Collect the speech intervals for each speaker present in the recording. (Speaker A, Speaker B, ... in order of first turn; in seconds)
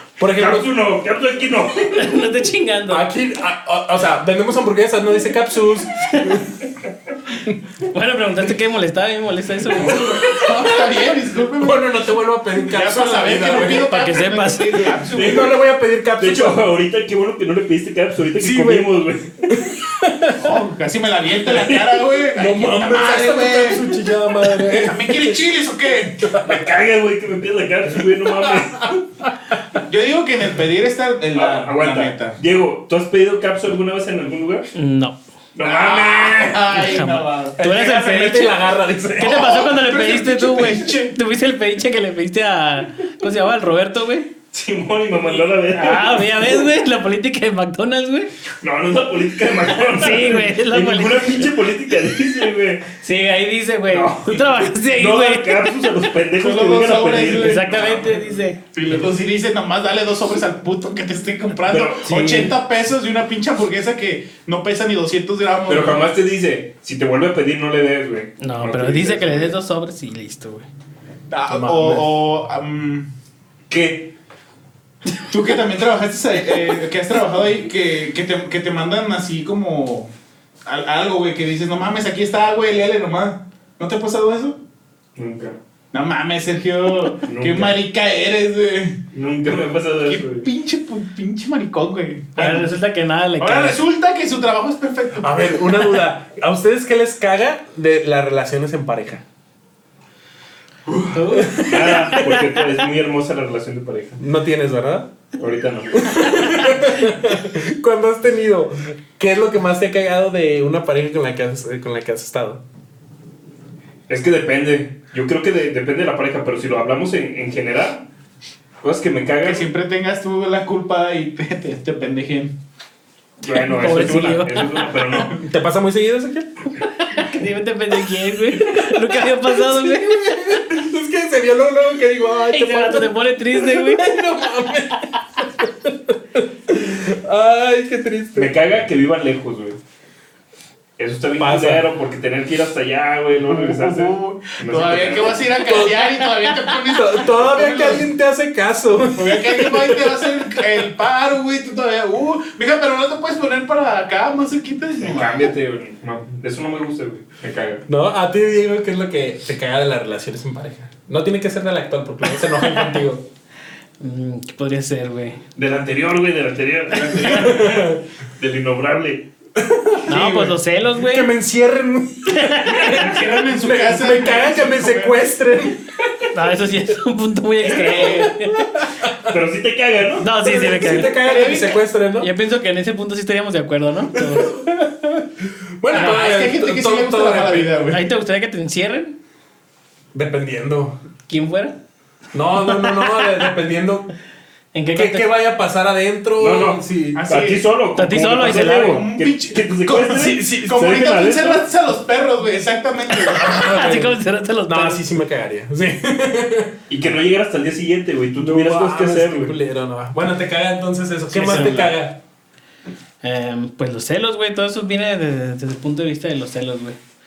Speaker A: 0.2-0.7, 2.9-6.5, 11.6-13.9, 15.1-16.6, 18.4-18.9, 19.5-20.5, 22.3-25.4, 26.2-26.6, 28.5-29.6, 37.6-39.7, 71.5-72.1, 95.2-99.2, 101.3-102.0, 104.2-105.1, 106.0-112.6, 125.4-126.7, 128.7-138.5, 141.4-141.8, 145.6-150.7, 157.9-163.2, 167.2-168.0, 169.6-175.9, 177.9-179.3, 180.4-182.3, 184.1-188.0, 190.1-191.0, 192.3-194.1, 194.9-197.2, 200.2-200.8, 203.3-206.7, 208.4-212.2
Speaker B: 0.3-2.1, 15.1-15.5, 16.2-19.6, 21.5-21.8, 26.4-28.9, 31.3-34.7, 35.5-36.8, 44.5-46.6, 48.6-52.9, 53.9-58.2, 61.7-62.1, 65.7-69.5, 73.7-74.1, 85.2-85.6, 87.2-87.8, 89.1-90.5, 101.6-104.2, 105.4-106.2, 114.1-118.1, 118.8-119.7, 123.4-125.4, 138.3-139.8, 141.0-145.4, 155.0-157.8, 165.6-169.3, 177.8-178.1, 179.3-180.3, 196.4-201.7, 206.9-209.6
Speaker C: 1.9-3.0, 6.1-6.4, 7.9-10.5, 13.6-14.9, 34.7-35.2, 36.7-38.6, 39.2-44.3, 45.7-48.3, 49.8-51.5, 53.0-55.7, 57.3-58.6, 62.0-62.5, 68.4-70.7, 92.3-93.8, 101.1-102.4, 123.5-124.9, 127.0-130.6, 132.5-134.2, 162.4-163.0, 164.0-165.4, 170.1-171.3, 172.3-173.3, 176.3-178.7, 180.2-181.6, 182.2-184.6, 187.9-189.2, 191.3-191.8, 192.6-193.4, 194.7-195.3, 197.9-199.1, 203.4-205.0, 211.3-212.0, 213.2-217.0
Speaker D: 9.8-11.8, 12.6-15.5, 20.3-23.9, 24.6-26.3, 29.8-32.4, 35.6-37.6, 39.2-41.1, 56.4-58.0, 58.7-66.0, 71.3-73.1, 75.3-80.1, 80.7-84.6, 85.9-89.0, 90.0-92.7, 93.4-95.7, 100.9-101.2, 119.4-122.6, 143.5-148.1, 149.1-155.5, 166.9-167.7, 170.1-170.5, 172.8-175.2, 181.0-181.8, 185.9-188.0, 197.1-197.7, 198.3-203.5